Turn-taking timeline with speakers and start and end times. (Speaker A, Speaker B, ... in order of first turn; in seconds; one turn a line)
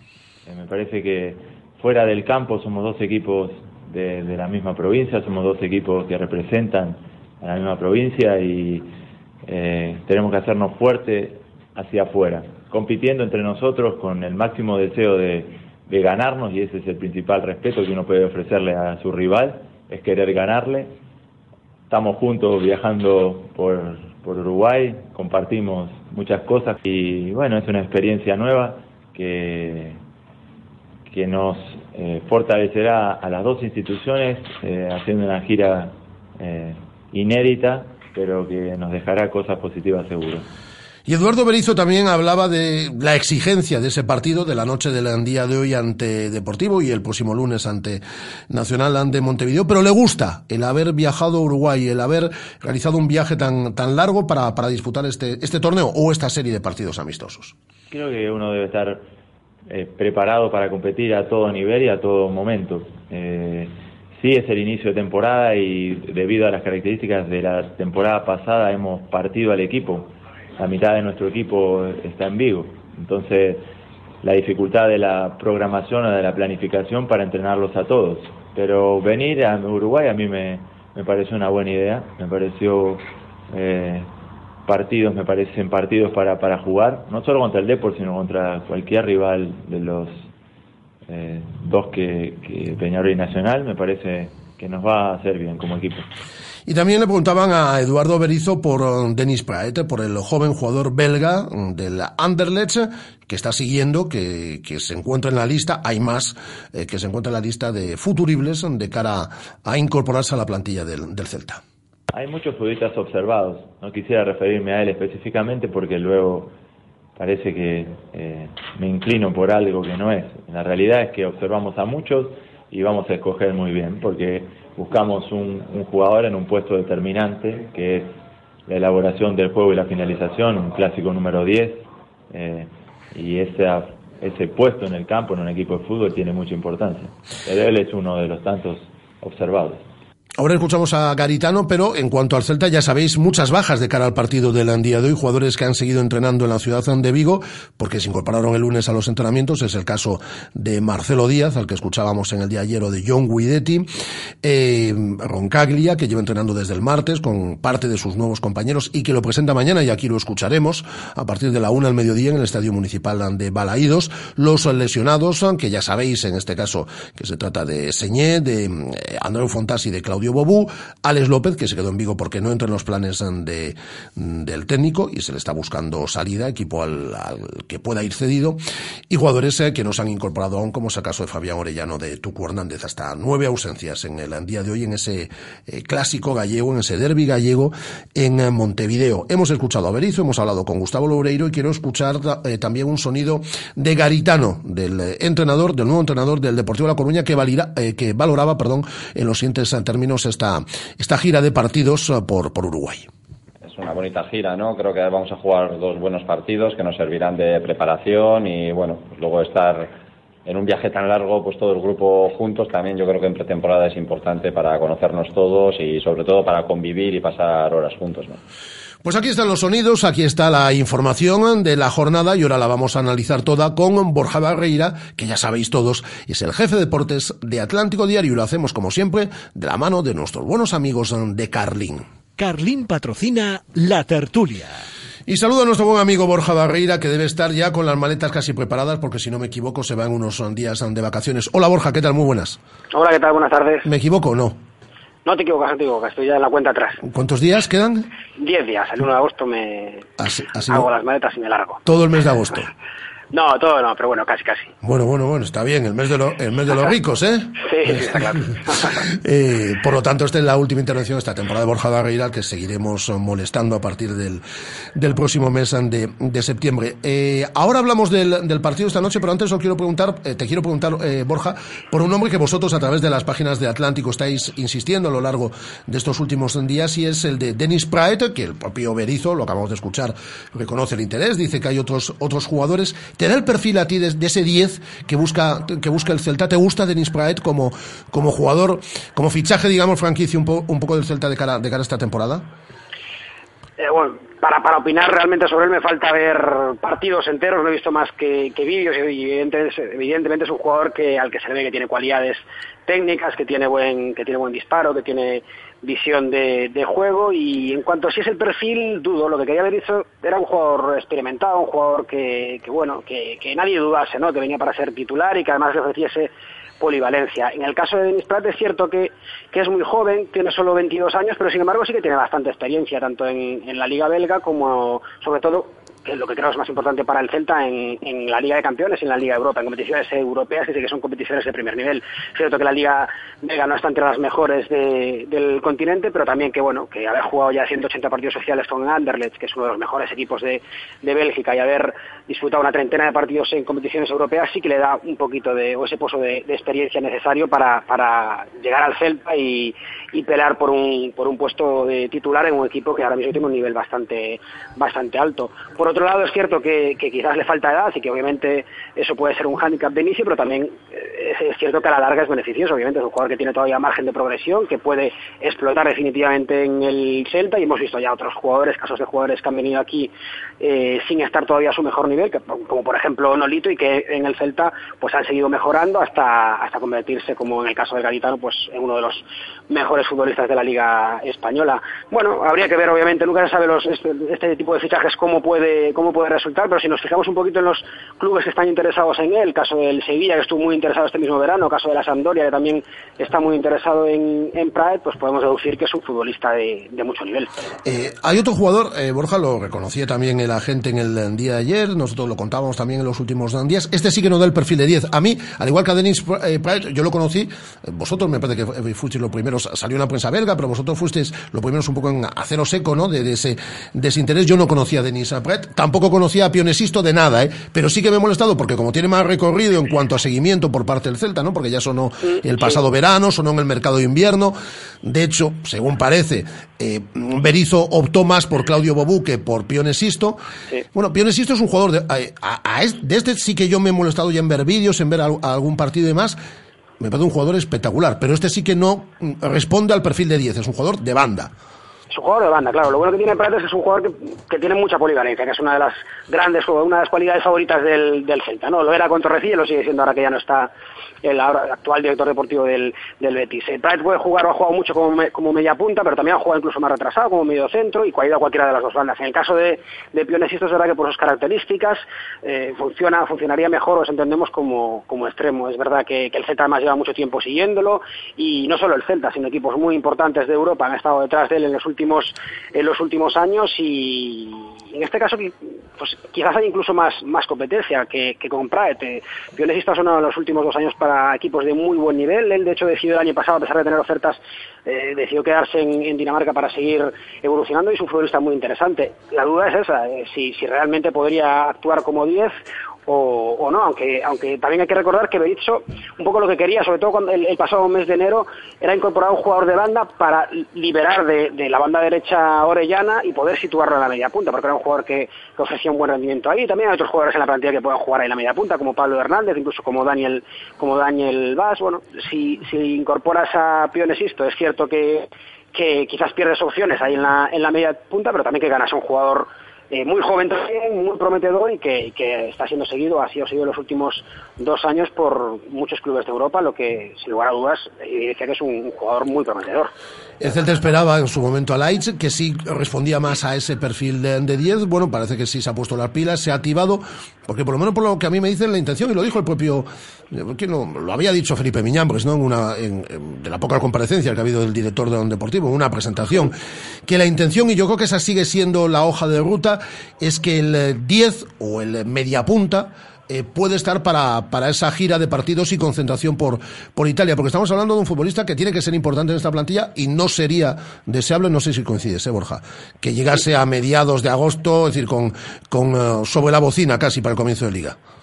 Speaker A: 0.5-8.9
Speaker A: 9.4-21.0
Speaker A: 21.9-30.0
Speaker A: 31.1-40.5
Speaker B: 41.1-57.5
Speaker A: 57.9-59.0
Speaker A: 59.7-73.7
Speaker A: 74.2-84.1
Speaker A: 84.7-90.3
Speaker A: 91.1-96.1
Speaker B: 96.7-111.6
Speaker A: 112.1-116.5
Speaker A: 117.2-128.1
Speaker A: 128.7-139.8
Speaker B: 140.4-153.9
Speaker B: 154.4-178.6
Speaker B: 179.1-203.1
Speaker C: 203.6-209.9
Speaker C: 210.5-218.4
Speaker B: 219.0-232.1
Speaker D: 232.4-234.8
Speaker B: 235.3-242.6
Speaker E: 242.9-243.9
Speaker B: 243.8-244.6
Speaker E: 245.2-247.0
Speaker B: 247.0-248.1
Speaker E: 248.4-250.1
Speaker B: 250.2-250.9
Speaker E: 250.6-251.8
Speaker B: 251.8-252.7
Speaker E: 253.3-254.7
Speaker B: 254.8-258.4
Speaker E: 257.6-258.9
Speaker B: 259.0-264.4
Speaker B: 264.9-292.4
Speaker E: 293.8-316.3
Speaker E: 316.8-397.5
Speaker B: 397.9-430.4
Speaker E: 422.2-422.8
Speaker B: 430.9-436.4
Speaker B: 437.0-441.5
Speaker E: 442.1-450.7
Speaker E: 451.2-492.6
Speaker E: 493.1-529.9
Speaker B: 530.4-546.5
Speaker B: 547.1-568.0